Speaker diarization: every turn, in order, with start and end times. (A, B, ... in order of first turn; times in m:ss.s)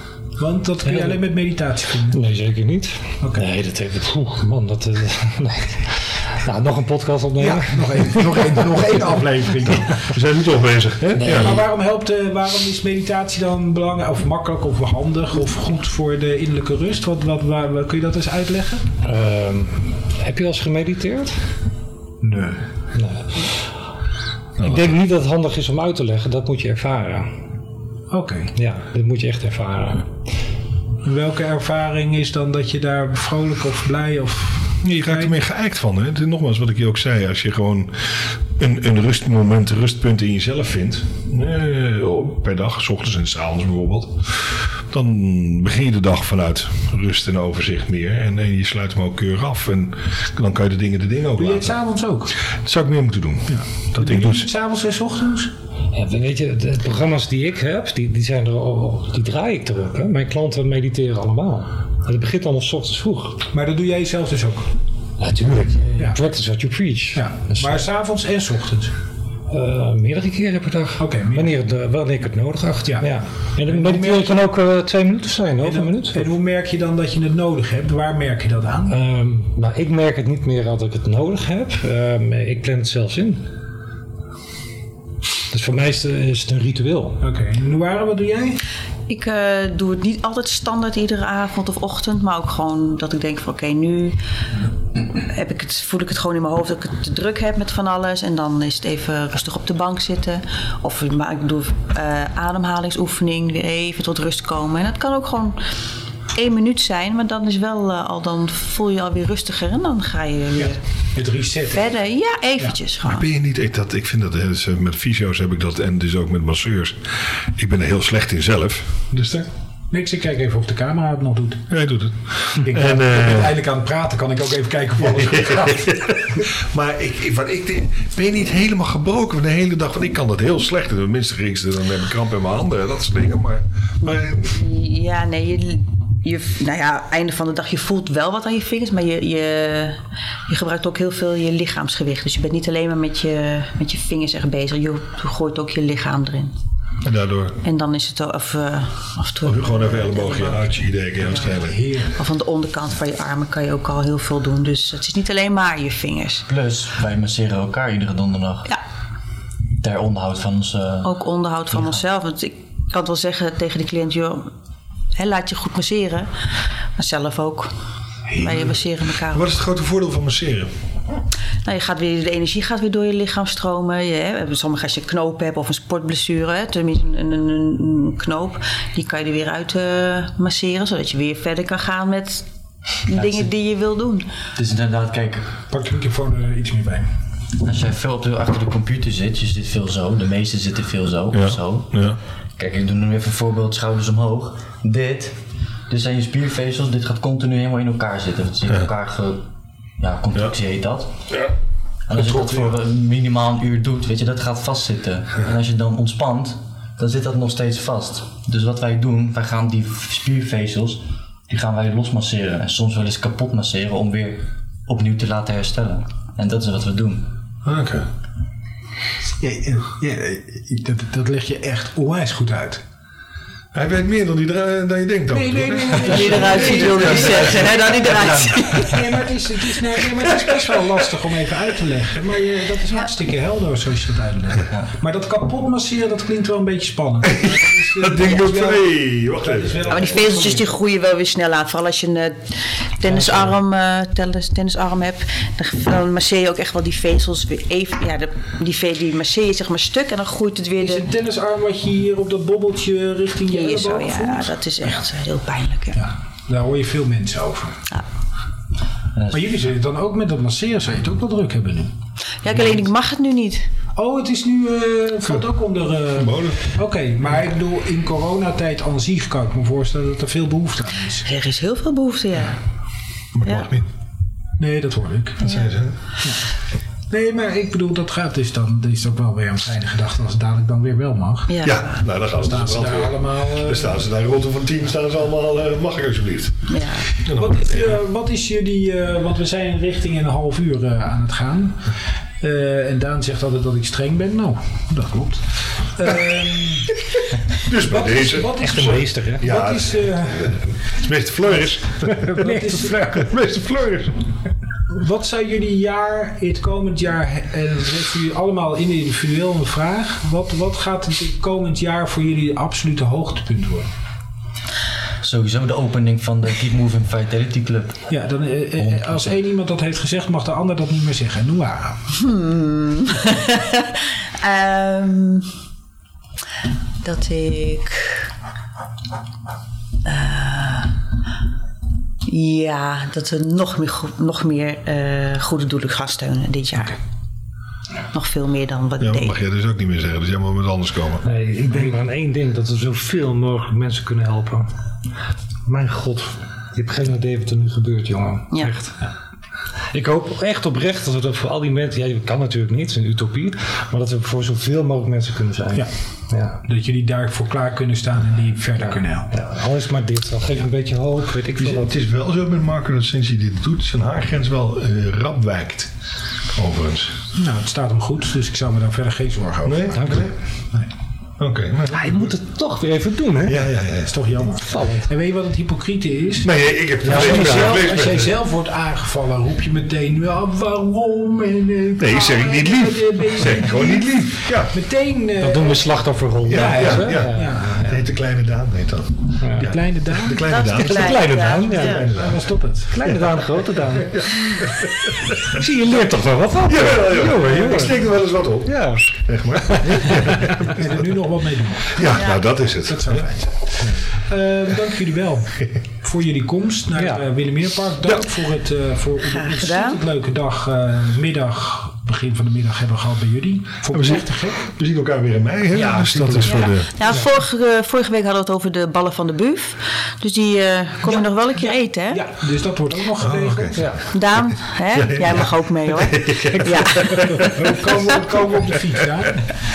0:00.4-0:02.2 A
0:00.8-0:01.2 B
0:02.1-0:08.9 B
0:03.2-0:03.4 A
0:07.4-0:10.1 A
0:09.9-0:11.6 C
0:11.2-0:11.6 B
0:11.3-0:18.9 A
0:19.0-0:21.4 B
0:22.2-0:22.6 A
0:22.9-0:23.5 B
0:24.6-0:24.9 C
0:24.6-0:27.3 B
0:28.1-0:28.5 A
0:28.6-0:30.1 B
0:31.0-0:35.4 A
0:34.8-0:51.8 C
0:51.4-0:52.4 A
0:52.6-0:54.5 C
0:53.5-0:55.5 A
0:55.9-1:03.4 B
1:03.5-1:04.7 A
1:05.2-1:07.8 B
1:07.1-1:08.9 A
1:09.5-1:16.3 B
1:11.0-1:11.5 A
1:13.6-1:14.4 A
1:15.6-1:19.0 A
1:18.9-1:23.4 B
1:25.5-1:27.2 B
1:27.2-1:28.6 A
1:29.1-1:34.2 D
1:35.2-1:45.6 D
1:46.3-1:50.8 D
1:50.6-1:51.9 A
1:51.7-1:53.2 D
1:53.0-1:59.5 C
1:59.9-2:01.7 A
2:01.7-2:03.5 C
2:02.5-2:06.1 A
2:05.0-2:14.6 C
2:14.0-2:26.5 D
2:27.0-2:27.6 C
2:27.6-2:30.7 D
2:29.4-2:31.8 C
2:31.2-2:32.2 A
2:32.2-2:36.4 D
2:36.5-2:38.7 E
2:39.8-2:41.1 E
2:41.0-2:44.5 D
2:41.7-2:42.0 E
2:45.2-2:46.3 D
2:46.9-2:47.7 D
2:48.4-2:49.4 D
2:49.2-2:50.7 C
2:51.6-3:02.4 D
3:03.0-3:04.3 D
3:03.1-3:03.5 E
3:04.5-3:05.5 E
3:05.7-3:07.1 A
3:07.6-3:12.0 E
3:11.3-3:12.2 C
3:12.6-3:19.4 E
3:20.0-3:21.1 E
3:22.1-3:37.3 E
3:22.1-3:22.7 C
3:37.6-3:38.1 C
3:39.4-3:42.8 A
3:43.7-3:49.0 C
3:45.3-3:47.7 A
3:45.9-3:49.0 D
3:47.2-3:47.7 E
3:48.7-4:00.7 A
3:50.2-3:50.9 C
3:57.5-4:00.1 C
3:59.9-4:11.1 D
4:10.8-4:15.0 A
4:13.5-4:16.0 D
4:15.9-4:17.8 A
4:19.3-4:21.9 A
4:22.4-4:23.7 D
4:23.9-4:31.3 A
4:26.1-4:26.6 C
4:31.2-4:32.6 D
4:33.3-4:33.8 C
4:34.6-4:35.6 A
4:35.4-4:36.0 C
4:37.1-4:41.6 A
4:41.5-4:42.0 D
4:41.6-4:46.6 C
4:42.3-4:44.0 A
4:46.7-4:47.1 D
4:47.2-4:57.0 A
4:47.2-4:47.9 C
4:57.6-5:02.4 C
4:57.6-5:00.6 A
5:02.2-5:03.3 A
5:02.2-5:03.0 B
5:03.0-5:04.3 C
5:04.9-5:13.9 A
5:15.2-5:18.1 E
5:18.1-5:22.0 A
5:18.8-5:19.3 E
5:22.1-5:25.5 D
5:27.0-5:28.2 D
5:30.0-5:30.9 D
5:32.2-5:37.0 D
5:38.1-5:39.3 D
5:39.0-5:41.2 C
5:41.2-5:44.7 B
5:45.6-5:49.0 B
5:49.9-5:56.6 B
5:56.6-5:59.3 A
5:58.9-6:01.9 B
6:01.6-6:05.9 C
6:06.5-6:07.2 C
6:07.3-6:10.9 A
6:09.6-6:10.2 C
6:09.9-6:10.3 B
6:11.4-6:12.3 C
6:11.9-6:13.6 B
6:13.4-6:14.1 C
6:14.0-6:16.5 A
6:14.6-6:15.1 B
6:16.4-6:18.3 C
6:17.0-6:18.0 B
6:17.0-6:25.8 A
6:22.0-6:24.7 C
6:25.4-6:28.0 B
6:26.5-6:32.4 C
6:26.5-6:27.8 A
6:29.4-6:29.7 B
6:29.6-6:30.5 A
6:30.4-6:32.1 D
6:30.7-6:32.1 B
6:32.1-6:33.0 A
6:32.9-6:34.3 B
6:34.0-6:35.5 C
6:35.4-6:38.0 B
6:36.6-6:40.9 C
6:38.6-6:40.8 B
6:40.4-6:54.6 A
6:41.9-6:43.3 C
6:42.0-6:42.4 D
6:47.0-6:47.3 B
6:49.3-6:50.0 D
6:53.9-6:56.9 C
6:55.8-6:56.7 A
6:56.5-7:02.2 D
7:01.0-7:03.8 A
7:03.2-7:03.9 C
7:03.8-7:04.1 B
7:04.1-7:07.9 D
7:04.9-7:08.7 C
7:07.3-7:09.5 A